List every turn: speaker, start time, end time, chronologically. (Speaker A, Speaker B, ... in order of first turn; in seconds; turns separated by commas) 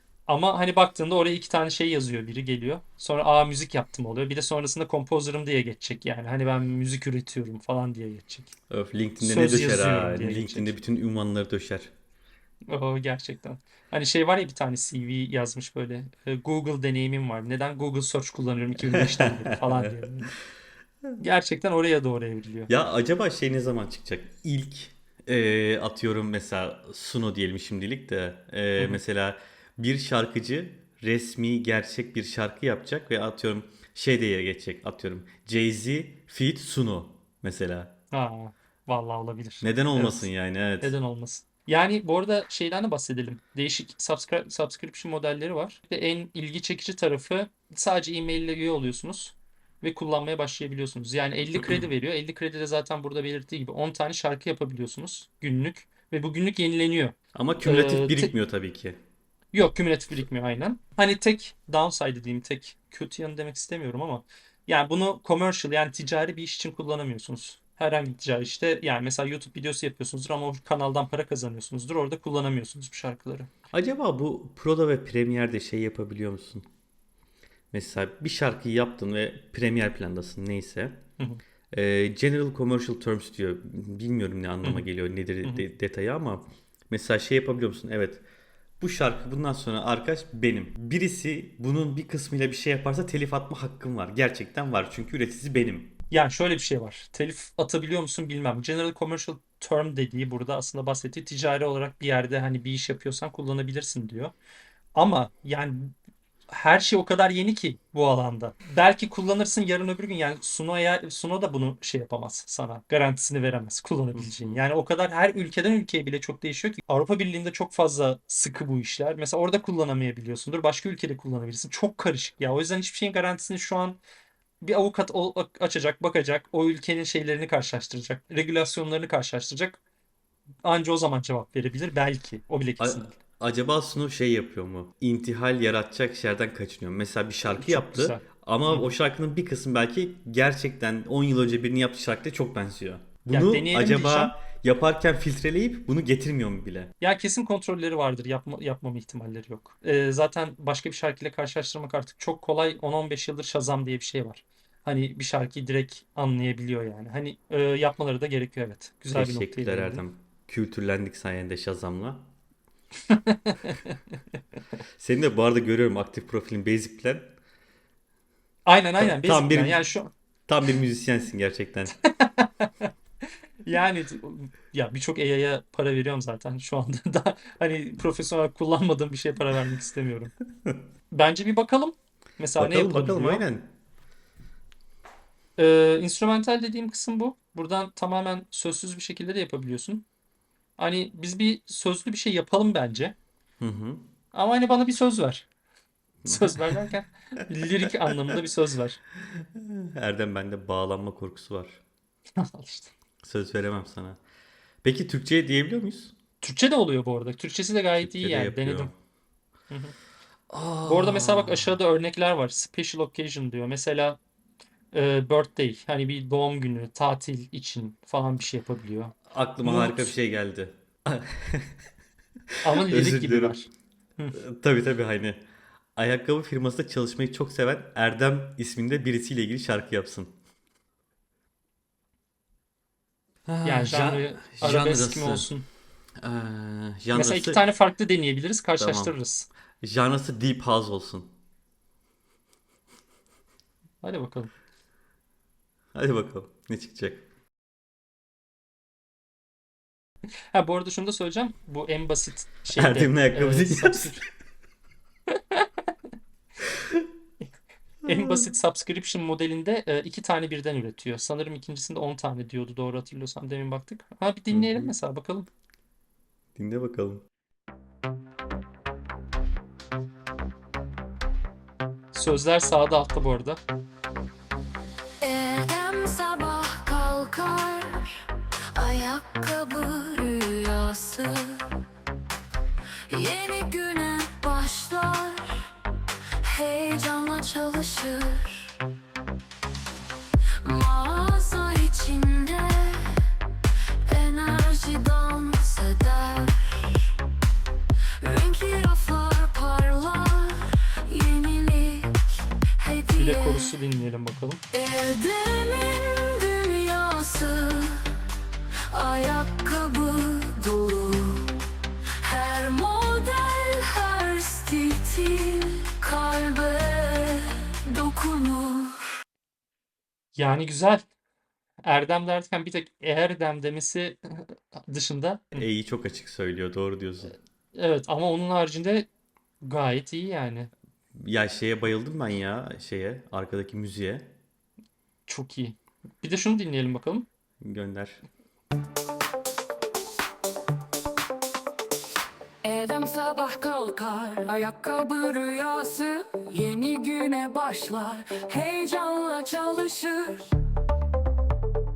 Speaker A: 0.3-8.5, Speaker B: 8.7-11.9, Speaker A: 9.2-10.8, Speaker A: 12.7-20.3, Speaker B: 18.9-19.8, Speaker A: 21.2-22.7, Speaker B: 22.7-37.9, Speaker A: 38.1-58.3, Speaker B: 39.6-40.9, Speaker B: 57.3-59.0, Speaker A: 59.5-73.5, Speaker B: 73.7-76.7, Speaker B: 77.7-81.0, Speaker B: 81.7-88.2, Speaker A: 84.6-84.9, Speaker B: 88.8-95.9, Speaker A: 96.1-104.3, Speaker A: 104.9-105.9, Speaker A: 106.5-124.0, Speaker B: 114.1-114.6, Speaker A: 124.6-129.8, Speaker A: 130.6-133.2, Speaker B: 132.8-146.9, Speaker A: 137.5-138.9, Speaker A: 143.3-144.4, Speaker A: 147.0-160.0, Speaker B: 159.1-162.3, Speaker A: 163.1-164.0, Speaker B: 165.0-167.3, Speaker A: 168.7-170.1, Speaker B: 169.0-169.8, Speaker B: 170.5-171.9, Speaker A: 172.1-172.7, Speaker A: 173.6-180.3, Speaker A: 181.1-183.4, Speaker B: 182.6-183.7, Speaker A: 185.6-190.0, Speaker A: 190.8-193.2, Speaker B: 193.6-194.0, Speaker A: 194.3-195.4, Speaker B: 196.2-196.9, Speaker A: 196.2-199.0, Speaker B: 199.3-201.8, Speaker A: 202.4-202.9, Speaker B: 203.2-204.2, Speaker B: 204.8-206.1, Speaker A: 206.4-208.9, Speaker B: 208.0-208.9, Speaker A: 209.7-209.9, Speaker B: 210.5-211.7, Speaker A: 210.8-214.2, Speaker A: 214.9-220.1, Speaker B: 219.3-221.8, Speaker A: 222.6-224.4, Speaker B: 222.7-223.6, Speaker B: 224.3-225.4, Speaker B: 225.9-230.3, Speaker B: 233.5-235.5, Speaker A: 233.6-235.7, Speaker B: 236.2-237.6, Speaker A: 237.1-239.5, Speaker B: 238.8-239.2, Speaker B: 239.8-241.3, Speaker A: 244.0-244.5, Speaker B: 245.9-247.2, Speaker A: 250.5-254.2, Speaker B: 252.7-254.1, Speaker A: 255.3-255.7, Speaker A: 258.0-265.5, Speaker B: 264.5-264.9, Speaker B: 266.5-267.2, Speaker A: 272.1-273.6, Speaker C: 275.2-277.9, Speaker C: 278.7-281.7, Speaker C: 283.1-285.6, Speaker C: 286.4-288.8, Speaker C: 290.6-293.3, Speaker C: 294.1-297.1, Speaker C: 298.2-302.1, Speaker C: 302.8-303.7, Speaker A: 303.1-304.6, Speaker C: 304.7-308.1, Speaker C: 308.9-311.6, Speaker C: 312.2-318.9, Speaker A: 320.4-321.0, Speaker A: 321.8-325.7, Speaker B: 325.5-327.3, Speaker A: 327.7-329.1, Speaker A: 329.6-330.7, Speaker B: 331.2-334.3, Speaker A: 335.3-337.3, Speaker B: 337.6-338.2, Speaker C: 342.6-350.4